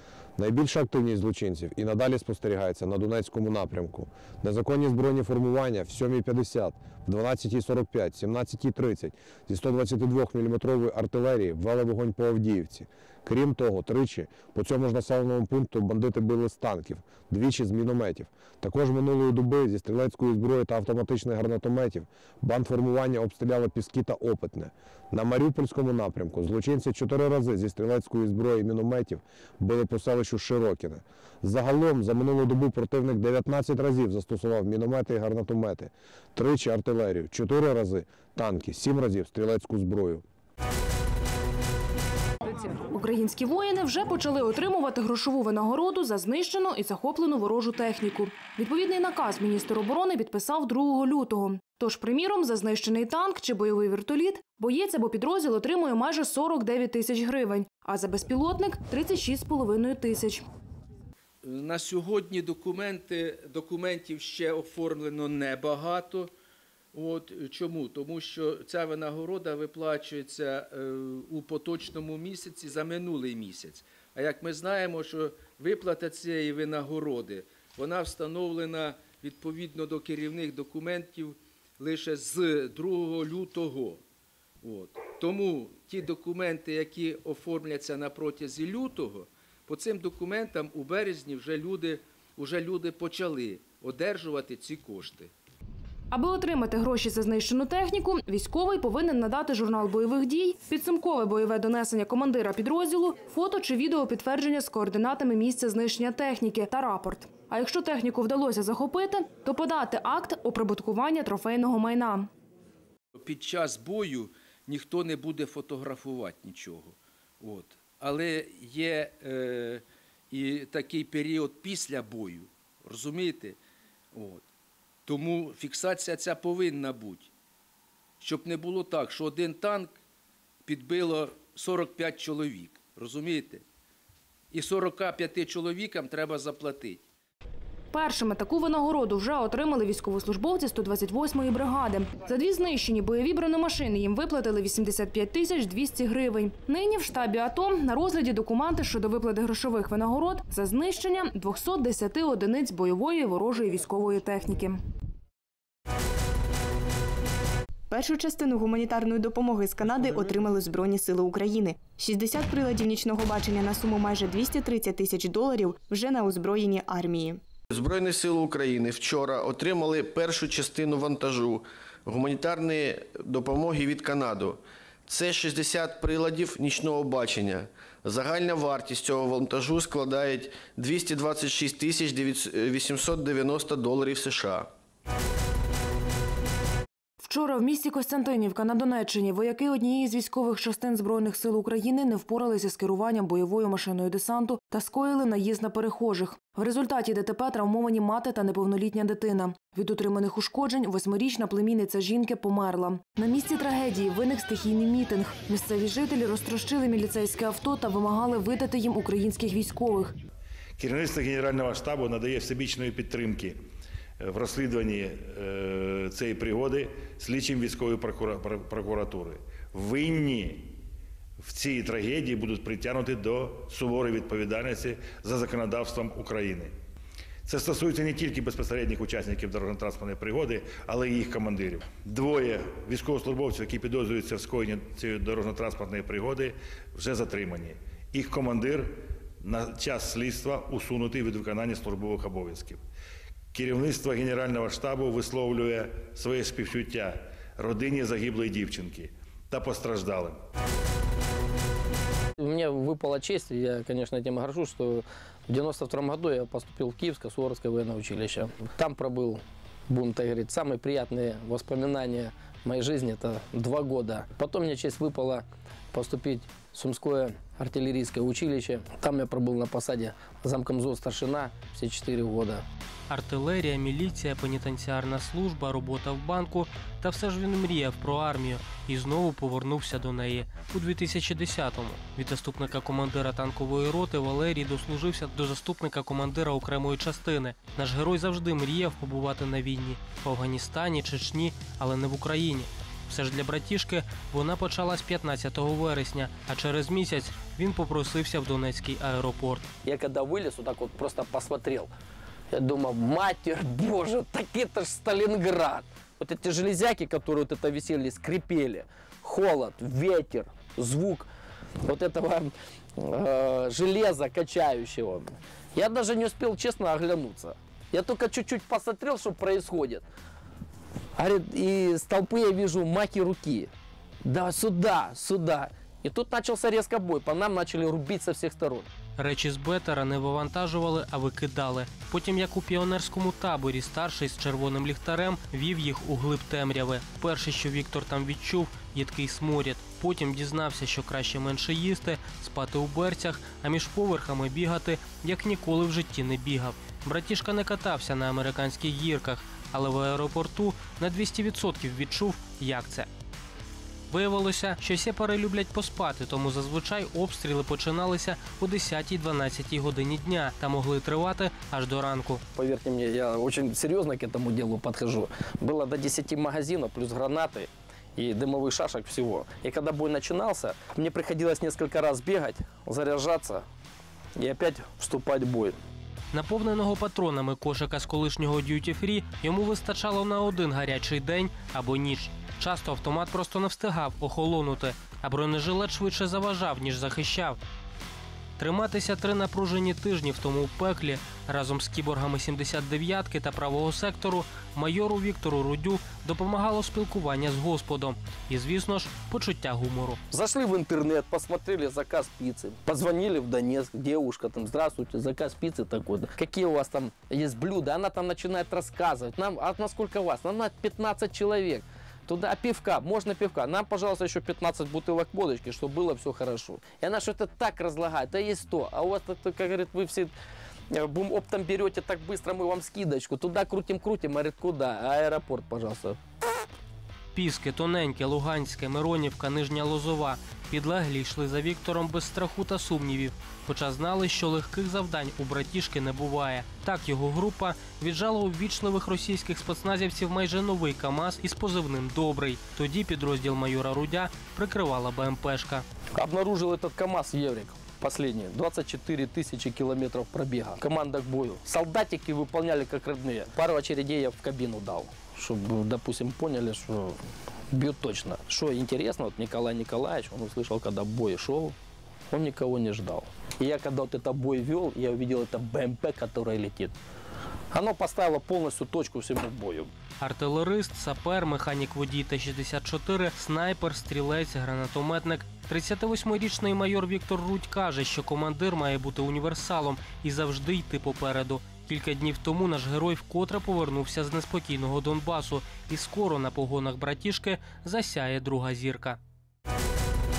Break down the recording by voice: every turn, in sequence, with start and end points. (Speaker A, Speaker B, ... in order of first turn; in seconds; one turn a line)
Speaker A: 0.4-40.2
Speaker B: 42.5-60.5
Speaker C: 61.4-66.3
Speaker C: 66.9-84.0
Speaker C: 84.6-95.3
Speaker B: 96.1-112.3
Speaker C: 113.2-123.6
Speaker C: 124.1-124.5
Speaker C: 125.1-127.3
Speaker C: 128.2-130.0
Speaker C: 130.7-133.7
Speaker C: 134.5-137.0
Speaker B: 137.9-154.8
Speaker D: 157.9-167.3
Speaker E: 167.7-184.7
Speaker B: 187.2-210.1
Speaker F: 210.8-213.6
Speaker F: 214.2-220.7
Speaker F: 221.4-226.7
Speaker F: 227.5-242.8
Speaker F: 243.5-250.4
Speaker G: 252.4-272.6
Speaker H: 273.1-299.7
Speaker G: 299.8-301.9
Speaker G: 302.5-311.3
Speaker G: 311.8-320.1
Speaker G: 321.2-323.7
Speaker G: 324.2-328.9
Speaker H: 329.2-353.1
Speaker H: 354.1-362.4
Speaker G: 362.5-373.6
Speaker G: 374.4-375.8
Speaker H: 376.3-387.6
Speaker H: 388.6-400.2
Speaker G: 400.3-420.3
Speaker G: 420.9-426.2
Speaker H: 427.3-445.9
Speaker G: 446.2-457.2
Speaker G: 457.7-461.8
Speaker G: 462.3-467.0
Speaker G: 467.7-469.9
Speaker H: 470.2-489.2